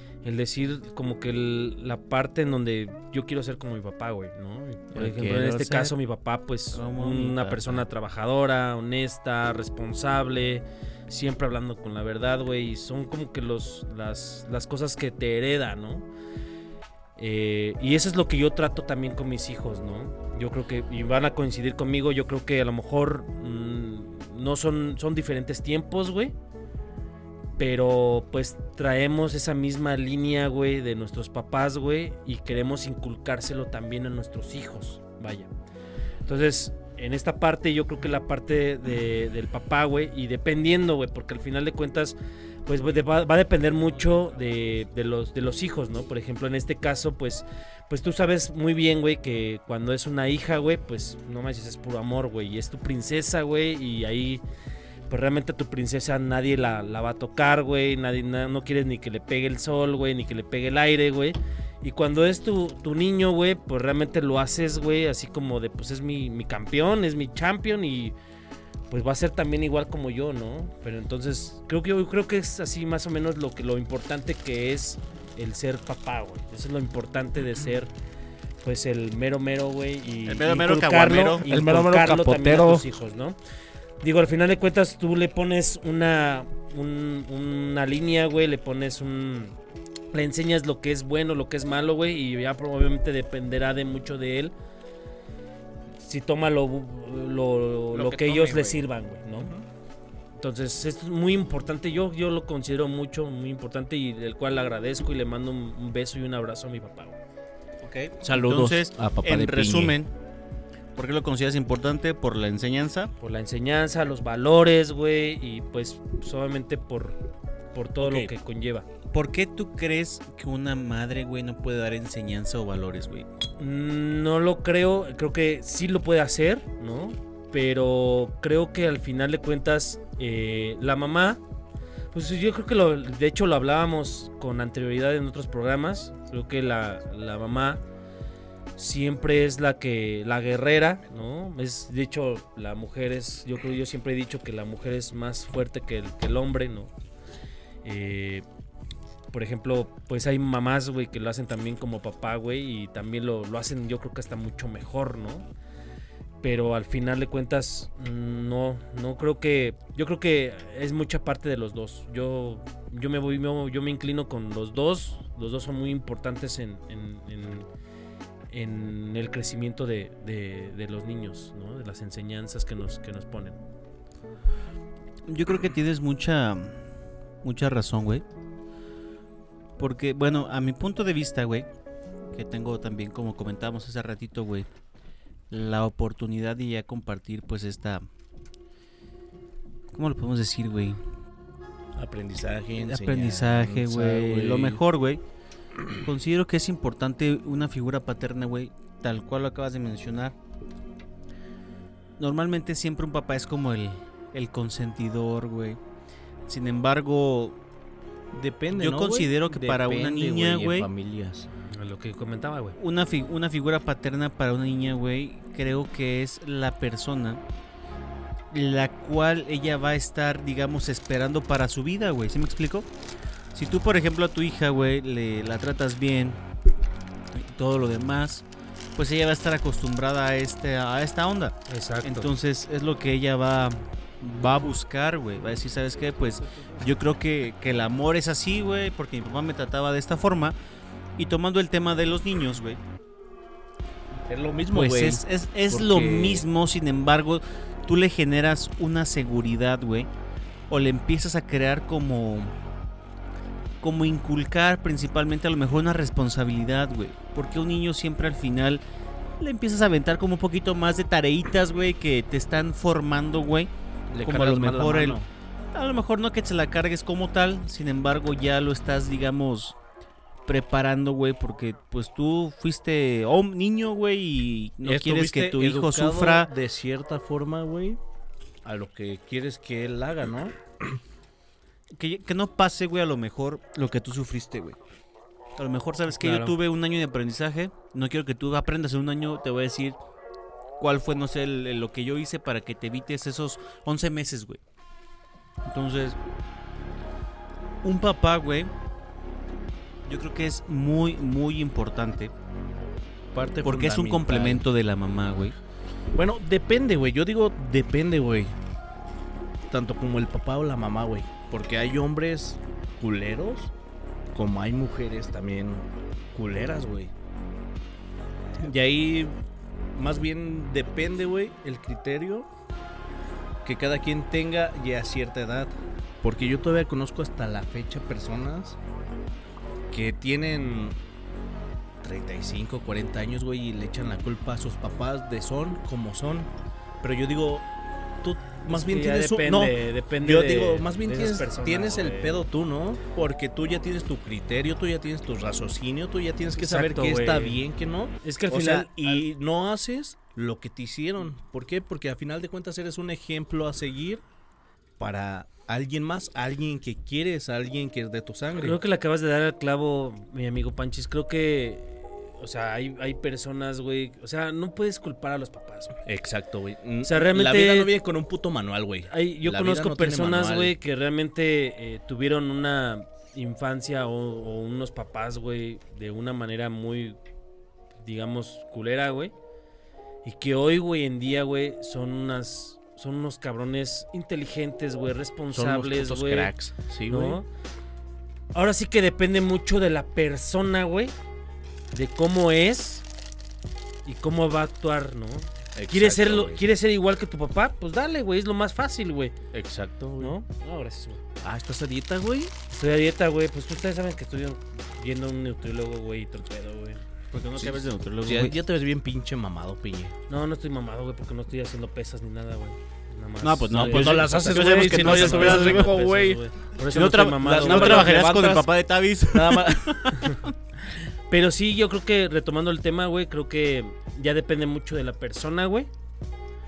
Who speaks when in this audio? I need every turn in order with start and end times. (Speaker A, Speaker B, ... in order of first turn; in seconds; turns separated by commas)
Speaker A: 0.2-16.1, Speaker B: 4.9-6.0, Speaker B: 6.7-7.9, Speaker A: 17.2-26.3, Speaker A: 27.6-35.5, Speaker A: 36.3-54.4, Speaker A: 55.1-68.2, Speaker A: 68.9-77.9, Speaker A: 78.6-83.4, Speaker B: 80.3-81.5, Speaker C: 81.5-82.9, Speaker A: 84.0-89.6, Speaker A: 90.1-94.5, Speaker A: 96.0-99.5, Speaker B: 97.9-98.8, Speaker A: 100.4-107.2, Speaker B: 107.8-110.1, Speaker C: 108.2-110.0, Speaker B: 111.0-113.1, Speaker A: 113.2-117.2, Speaker A: 117.7-118.9, Speaker B: 119.1-123.3, Speaker A: 123.6-131.4, Speaker A: 132.1-137.8, Speaker A: 138.8-146.9, Speaker A: 147.8-148.5, Speaker A: 149.3-155.5, Speaker A: 156.4-167.7, Speaker A: 168.5-173.6, Speaker B: 175.3-176.8, Speaker B: 177.4-178.2, Speaker B: 179.8-181.7, Speaker B: 182.3-184.7, Speaker B: 185.5-188.1, Speaker B: 189.9-191.0, Speaker C: 192.0-194.8, Speaker B: 192.8-195.2, Speaker B: 196.0-200.4, Speaker B: 202.2-205.8, Speaker B: 206.5-207.6, Speaker C: 208.3-211.5, Speaker B: 208.7-210.9, Speaker A: 211.7-212.8, Speaker B: 212.8-217.4, Speaker B: 218.5-222.9, Speaker B: 223.5-226.4, Speaker B: 227.3-240.6, Speaker A: 231.7-232.3, Speaker B: 241.2-242.8, Speaker C: 244.3-246.5, Speaker B: 244.7-250.1, Speaker B: 250.7-252.5, Speaker B: 253.8-258.8, Speaker B: 259.4-263.7, Speaker C: 264.1-265.3, Speaker B: 264.2-265.2, Speaker B: 265.7-269.8, Speaker B: 270.5-276.5, Speaker C: 274.8-278.0, Speaker C: 278.6-281.0, Speaker B: 282.0-284.8, Speaker B: 285.6-290.0, Speaker A: 286.1-286.6, Speaker B: 290.8-294.6, Speaker B: 295.7-296.2, Speaker B: 297.8-298.7, Speaker B: 300.1-302.3, Speaker C: 303.3-304.6, Speaker B: 303.6-305.6, Speaker C: 306.1-308.5, Speaker C: 309.7-313.7, Speaker C: 314.3-317.1, Speaker C: 318.6-319.3, Speaker C: 319.9-322.5, Speaker C: 323.6-328.8, Speaker C: 329.9-330.9, Speaker C: 332.0-336.5, Speaker C: 337.0-337.7, Speaker C: 338.2-354.2, Speaker A: 338.7-342.4, Speaker A: 346.6-347.6, Speaker A: 348.2-349.2, Speaker C: 355.0-358.8, Speaker A: 358.6-366.0, Speaker C: 366.1-370.8, Speaker A: 367.0-367.9, Speaker A: 369.1-377.2, Speaker A: 378.0-379.3, Speaker A: 380.2-386.5, Speaker C: 385.5-387.4, Speaker A: 387.1-387.5, Speaker A: 388.5-391.1, Speaker A: 391.9-393.1, Speaker A: 394.1-399.4, Speaker C: 395.8-396.6, Speaker C: 399.5-400.4, Speaker A: 400.2-401.2, Speaker C: 401.4-402.5, Speaker A: 402.7-407.0, Speaker B: 407.3-408.6, Speaker C: 407.6-410.1, Speaker A: 410.3-418.1, Speaker B: 413.4-415.9, Speaker C: 413.7-416.4, Speaker B: 416.9-420.5, Speaker C: 417.4-418.7, Speaker C: 419.3-420.1, Speaker A: 421.3-425.9